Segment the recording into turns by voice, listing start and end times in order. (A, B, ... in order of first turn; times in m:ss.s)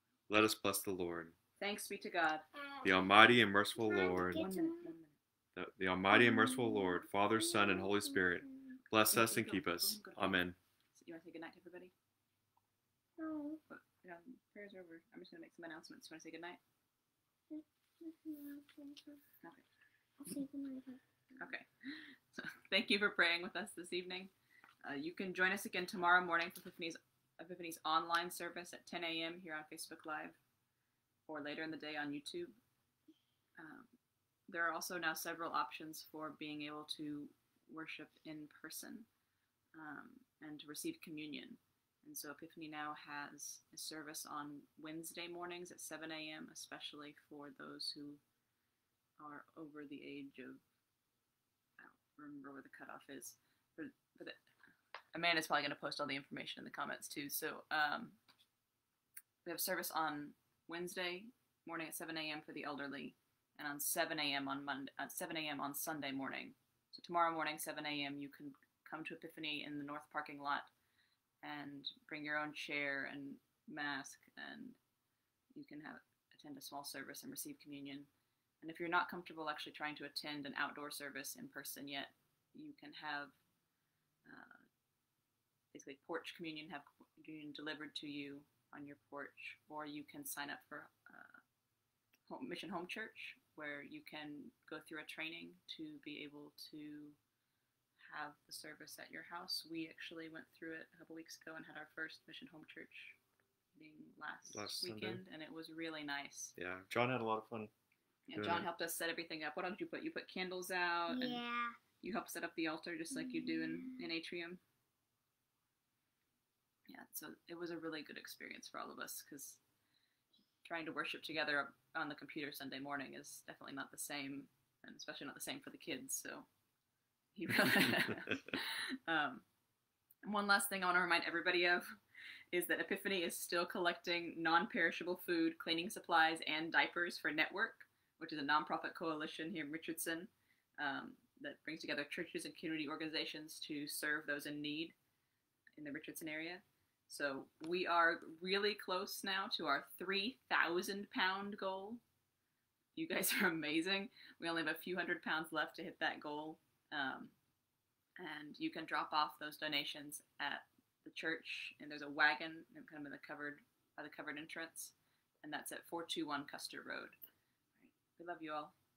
0:00.3-0:01.3 A
0:01.6-0:02.4 B
0:02.6-0:03.0 C
0:02.8-0:04.5 A
0:03.7-0:04.9 C
0:04.3-0:05.2 B
0:05.6-0:10.6 A
0:06.1-0:08.7 C
0:08.9-0:11.9 B
0:13.2-0:13.6 C
0:13.7-0:16.6 B
0:17.5-0:19.2 C
0:19.4-0:19.6 B
0:20.2-0:21.5 C
0:21.4-0:24.3 B
0:24.8-0:30.4 B
0:31.3-0:32.6 B
0:33.6-0:33.9 B
0:34.5-0:39.1 B
0:39.7-0:48.2 B
0:49.2-0:50.6 B
0:51.8-0:54.4 B
0:55.1-0:58.2 B
0:59.4-1:10.7 B
1:11.4-1:14.8 B
1:15.5-1:18.1 B
1:18.6-1:23.4 B
1:24.2-1:24.6 B
1:25.7-1:31.4 B
1:32.3-1:37.2 B
1:38.0-1:43.2 B
1:43.7-1:46.5 B
1:44.5-1:45.2 A
1:46.6-1:47.7 A
1:48.3-1:51.4 B
1:48.3-1:48.7 A
1:51.1-1:51.8 C
1:52.0-1:54.6 B
1:53.2-1:54.0 C
1:56.9-1:59.6 B
2:00.6-2:06.5 B
2:07.3-2:09.4 B
2:10.2-2:12.0 B
2:12.5-2:24.9 B
2:25.8-2:32.0 B
2:32.9-2:37.3 B
2:38.2-2:47.2 B
2:47.8-2:48.7 B